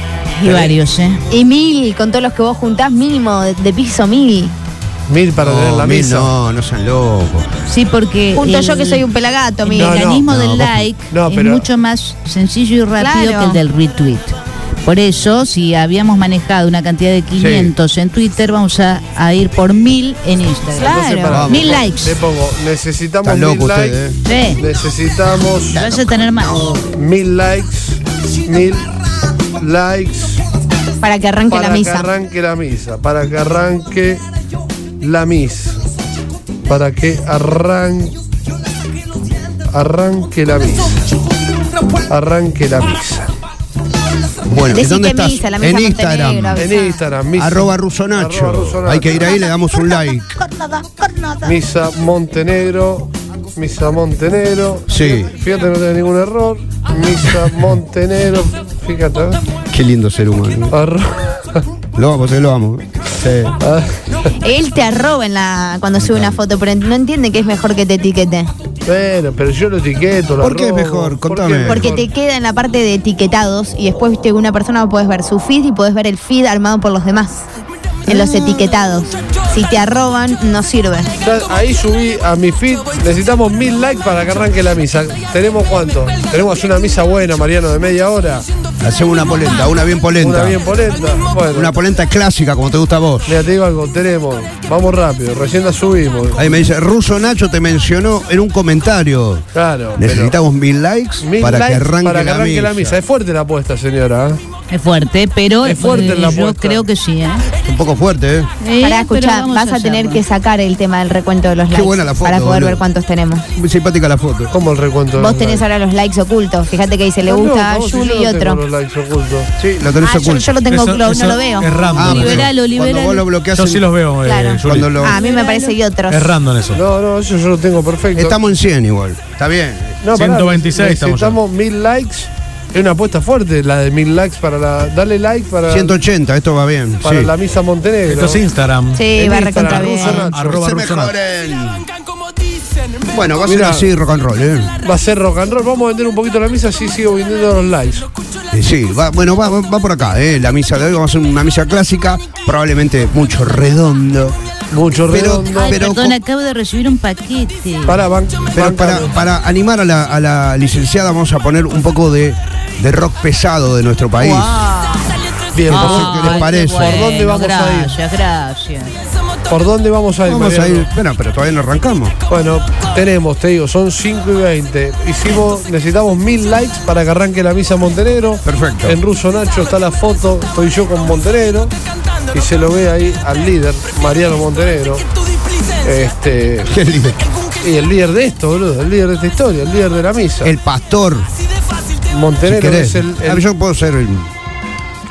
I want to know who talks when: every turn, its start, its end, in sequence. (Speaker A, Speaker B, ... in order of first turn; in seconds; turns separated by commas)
Speaker A: 0.4-1.2, Speaker B: 1.3-4.5, Speaker C: 5.1-6.3, Speaker D: 5.4-7.5, Speaker A: 7.7-9.1, Speaker B: 8.3-10.2, Speaker A: 9.6-22.1, Speaker C: 9.8-10.2, Speaker D: 10.3-10.9, Speaker C: 11.1-11.7, Speaker B: 13.0-13.6, Speaker D: 17.4-17.7, Speaker C: 20.8-24.0, Speaker B: 20.8-21.4, Speaker D: 21.3-21.7, Speaker D: 23.2-24.2, Speaker A: 24.3-24.6, Speaker C: 24.6-25.8, Speaker A: 25.6-26.7, Speaker D: 25.8-26.9, Speaker C: 26.9-28.9, Speaker C: 29.6-30.4, Speaker B: 31.0-32.1, Speaker C: 31.5-34.2, Speaker C: 35.0-35.8, Speaker C: 36.7-38.2, Speaker C: 39.7-41.0, Speaker C: 42.1-43.3, Speaker D: 44.5-46.7, Speaker B: 44.7-47.0, Speaker C: 46.6-49.4, Speaker D: 47.4-50.4, Speaker A: 50.4-51.5, Speaker C: 51.4-59.4, Speaker D: 54.9-55.3, Speaker D: 59.7-60.8, Speaker C: 60.7-61.6, Speaker D: 62.0-63.5, Speaker C: 63.6-63.9, Speaker B: 64.4-68.5, Speaker D: 66.0-66.4, Speaker C: 68.9-72.0, Speaker D: 70.4-71.9, Speaker B: 71.7-77.5, Speaker B: 78.1-81.1, Speaker C: 81.2-88.5, Speaker D: 88.8-90.6, Speaker C: 90.2-91.7, Speaker D: 91.5-93.4, Speaker C: 93.3-96.5, Speaker D: 96.4-99.5, Speaker C: 99.5-100.3, Speaker D: 100.0-103.0, Speaker C: 101.2-104.4, Speaker A: 104.7-107.5, Speaker C: 105.6-106.8, Speaker D: 107.6-108.5, Speaker A: 108.6-110.2, Speaker B: 108.8-113.5, Speaker D: 111.7-112.8, Speaker D: 113.5-114.5, Speaker C: 114.5-115.6, Speaker B: 115.2-118.6, Speaker C: 117.3-119.5, Speaker D: 119.6-120.6, Speaker B: 120.0-121.8, Speaker E: 120.7-122.4, Speaker D: 121.9-123.8, Speaker A: 122.0-123.3, Speaker E: 123.5-125.0, Speaker B: 124.2-126.3, Speaker D: 124.6-125.2, Speaker A: 125.2-125.7, Speaker E: 126.1-126.8, Speaker C: 126.7-128.4, Speaker D: 128.2-130.0, Speaker C: 130.0-135.9, Speaker E: 130.2-131.3, Speaker D: 135.7-137.3, Speaker C: 137.0-138.4, Speaker E: 138.1-139.1, Speaker B: 138.9-140.3, Speaker C: 139.2-140.6, Speaker E: 139.7-141.1, Speaker D: 140.4-141.8, Speaker D: 143.1-144.7, Speaker C: 143.4-143.9, Speaker C: 144.8-148.0, Speaker D: 148.5-154.4, Speaker C: 154.7-155.8, Speaker D: 155.1-156.2, Speaker A: 155.6-158.0, Speaker C: 157.9-159.1, Speaker D: 158.6-164.5, Speaker A: 164.2-165.2, Speaker C: 165.5-167.9, Speaker D: 165.7-167.0, Speaker A: 165.7-168.9, Speaker C: 169.5-170.9, Speaker D: 170.2-172.2, Speaker C: 172.3-181.7, Speaker D: 178.4-179.0, Speaker C: 182.3-185.0, Speaker C: 185.8-186.7, Speaker D: 186.7-187.2, Speaker C: 187.6-190.5, Speaker D: 190.4-191.3, Speaker C: 192.1-193.4, Speaker D: 192.4-194.3